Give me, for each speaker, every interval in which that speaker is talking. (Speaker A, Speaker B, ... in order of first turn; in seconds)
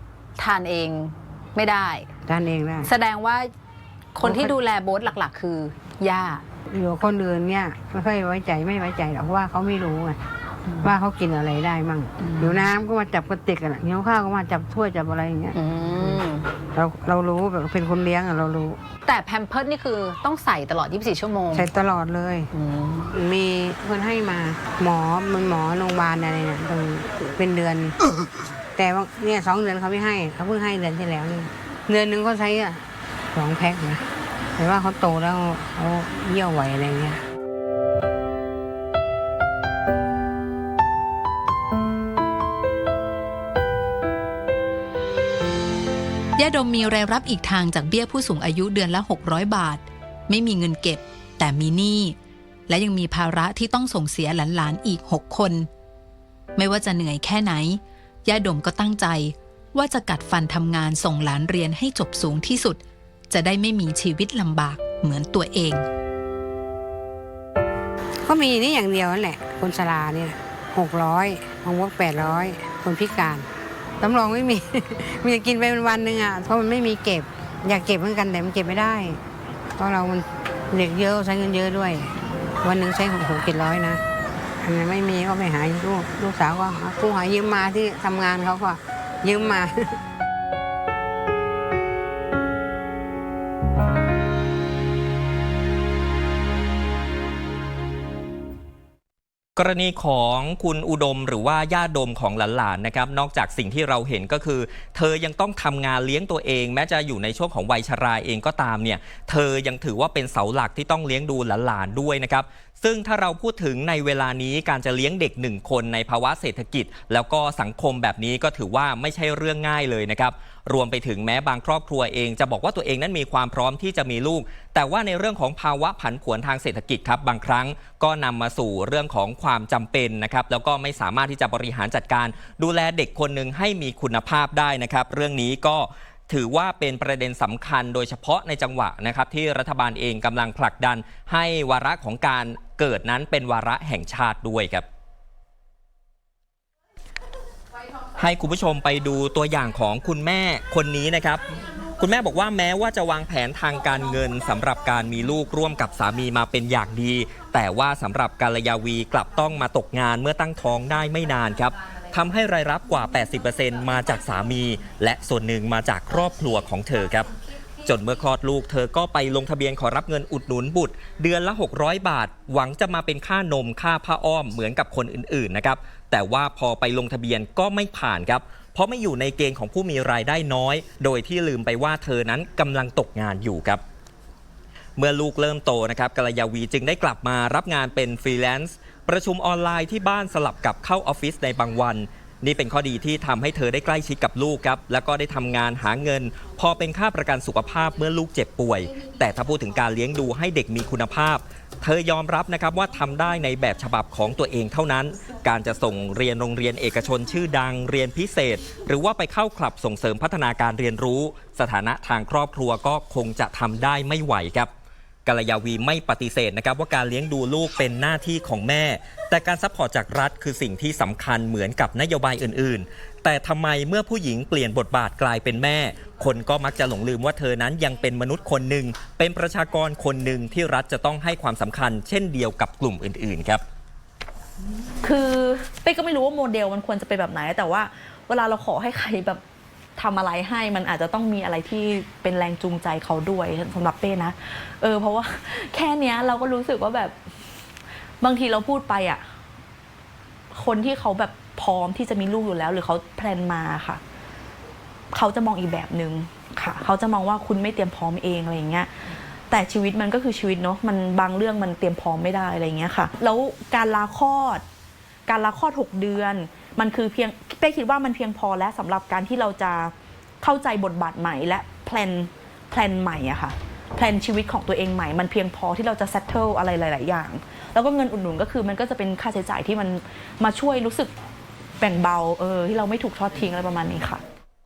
Speaker A: 0.4-2.1, 2.9-3.5, 4.2-6.5, 12.2-12.7, 15.5-16.5, 19.1-21.7, 22.5-23.1
Speaker B: 2.3-2.9, 4.2-4.5, 6.7-10.2, 10.8-15.6, 16.7-18.8, 21.5-22.5, 23.1-28.0, 28.8-32.8, 33.3-34.0, 34.6-37.2, 68.3-73.5, 74.0-79.2, 79.8-82.1, 82.6-84.0, 84.6-90.0
Speaker C: 46.4-52.2, 52.7-55.7, 56.6-65.8
Speaker D: 99.6-144.9, 148.2-183.8, 185.0-214.7, 215.3-233.6
Speaker E: 235.0-239.4, 240.0-247.2, 248.2-249.2, 250.5-254.0, 255.1-258.9, 259.5-264.6, 265.3-281.1, 281.8-284.2